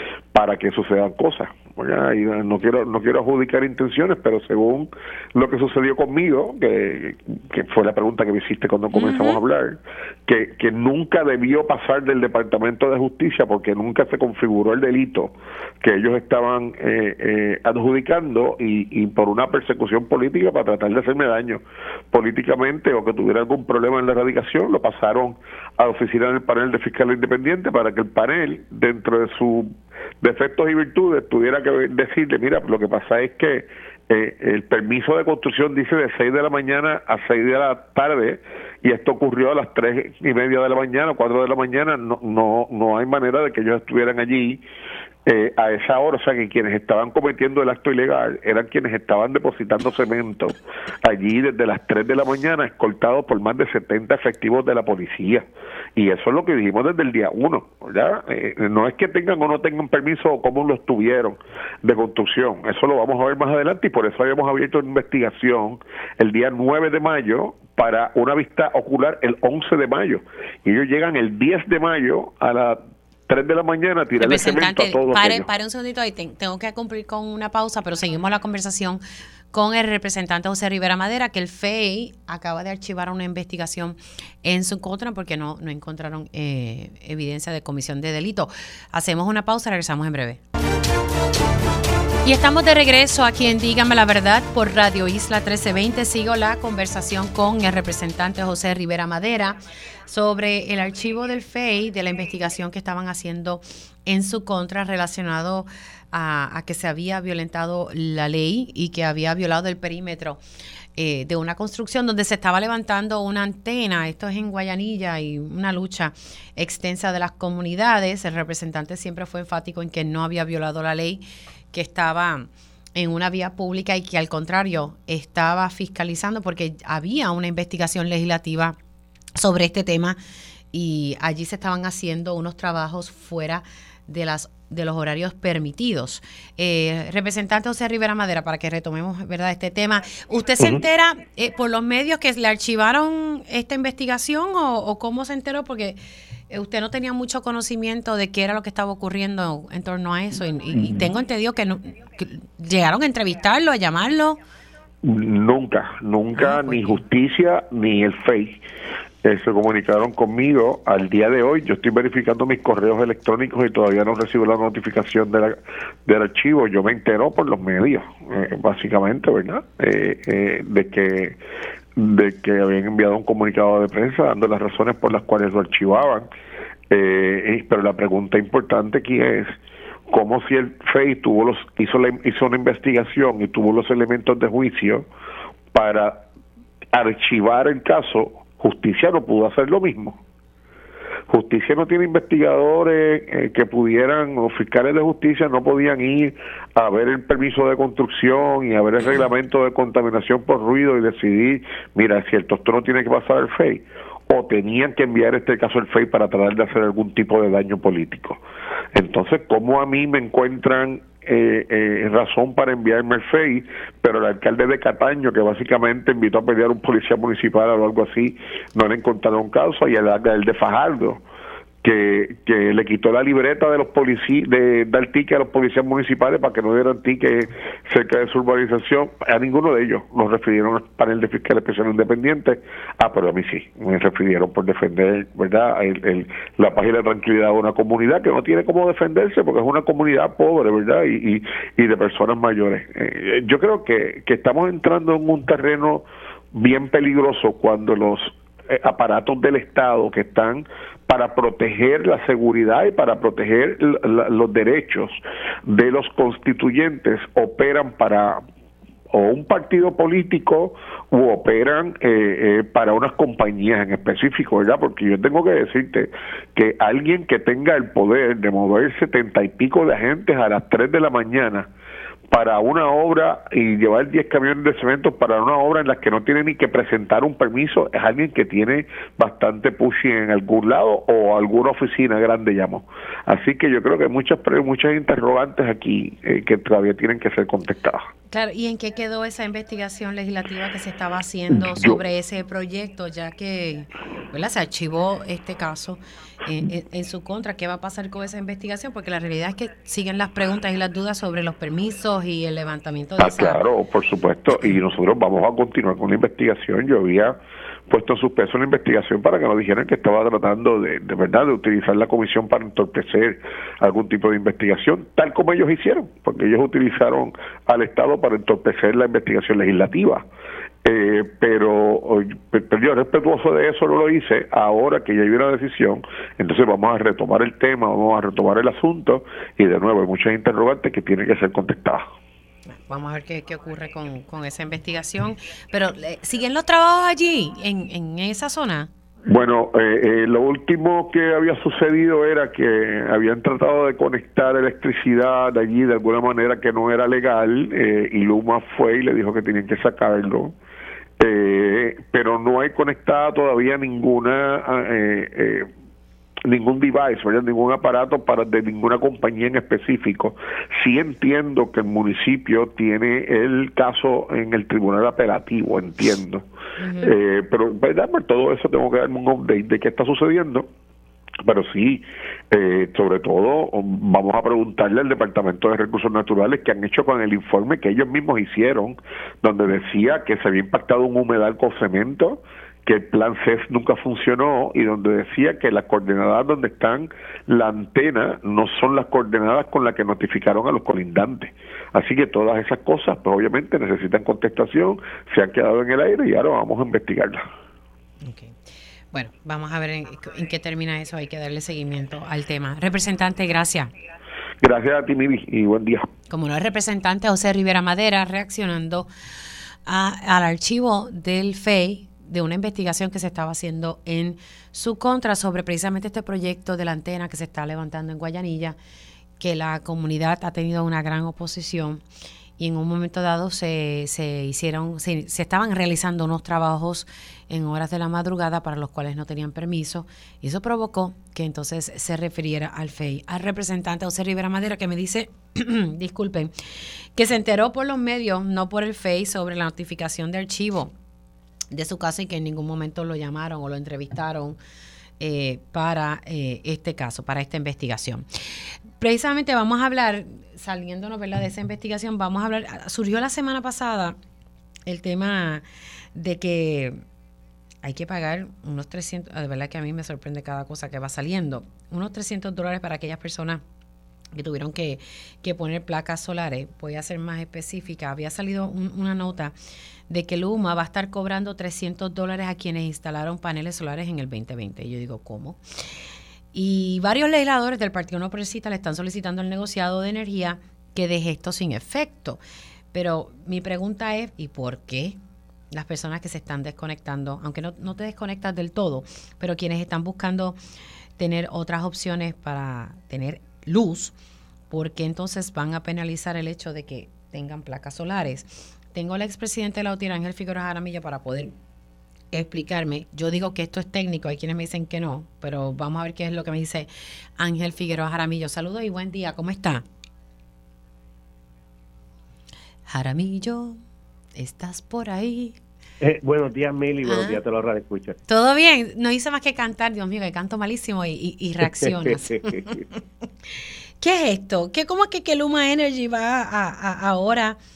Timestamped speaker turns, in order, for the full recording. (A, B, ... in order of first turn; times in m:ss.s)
0:00.3-0:44.6 A
0:08.9-0:09.4 B
0:45.3-1:15.5 A
1:14.2-1:19.0 B
1:19.5-1:30.4 B
1:32.2-1:50.4 B
1:51.0-2:08.8 B
2:09.4-2:10.2 B
2:10.7-2:26.0 B
2:26.5-2:34.4 B
2:30.7-2:31.1 A
2:35.0-2:38.6 A
2:36.4-2:37.0 B
2:39.2-2:51.4 A
2:52.0-2:56.3 A
2:56.9-2:59.6 A
3:00.1-3:05.1 A
3:05.7-3:06.2 A
3:06.9-3:10.2 A
3:11.3-3:28.4 A
3:29.0-3:41.2 A
3:41.8-4:18.4 A
4:19.1-4:31.7 A
4:32.3-4:48.1 A
4:48.3-5:03.6 B
4:51.7-4:52.0 A
5:03.2-5:07.4 A
5:07.9-5:20.3 A
5:20.8-5:32.1 A
5:32.7-5:38.9 B
5:39.3-5:50.5 A
5:51.2-5:55.7 A
5:56.5-6:06.4 A
6:06.8-6:07.1 B
6:07.0-6:10.7 A
6:11.4-6:37.4 A
6:38.2-6:38.6 B
6:39.1-6:43.9 B
6:44.6-6:46.1 A
6:46.3-6:49.1 B
6:49.9-6:58.8 B
6:59.4-7:02.0 B
7:02.6-7:16.5 B
7:17.2-7:20.9 B
7:21.7-7:24.6 B
7:25.2-7:28.2 B
7:29.0-7:34.2 B
7:34.9-7:35.6 B
7:36.2-7:37.0 B
7:37.8-7:43.6 B
7:44.4-7:49.5 B
7:50.1-7:55.6 B
7:56.5-8:02.4 B
8:02.9-8:05.2 B
8:05.7-8:10.6 B
8:11.2-8:14.1 B
8:14.7-8:21.5 B
8:22.3-8:29.8 B
8:32.9-8:33.8 B
8:34.4-8:35.6 B
8:36.0-8:38.2 C
8:37.0-8:37.4 B
8:38.3-8:43.0 B
8:41.6-8:42.8 C
8:44.0-8:47.6 B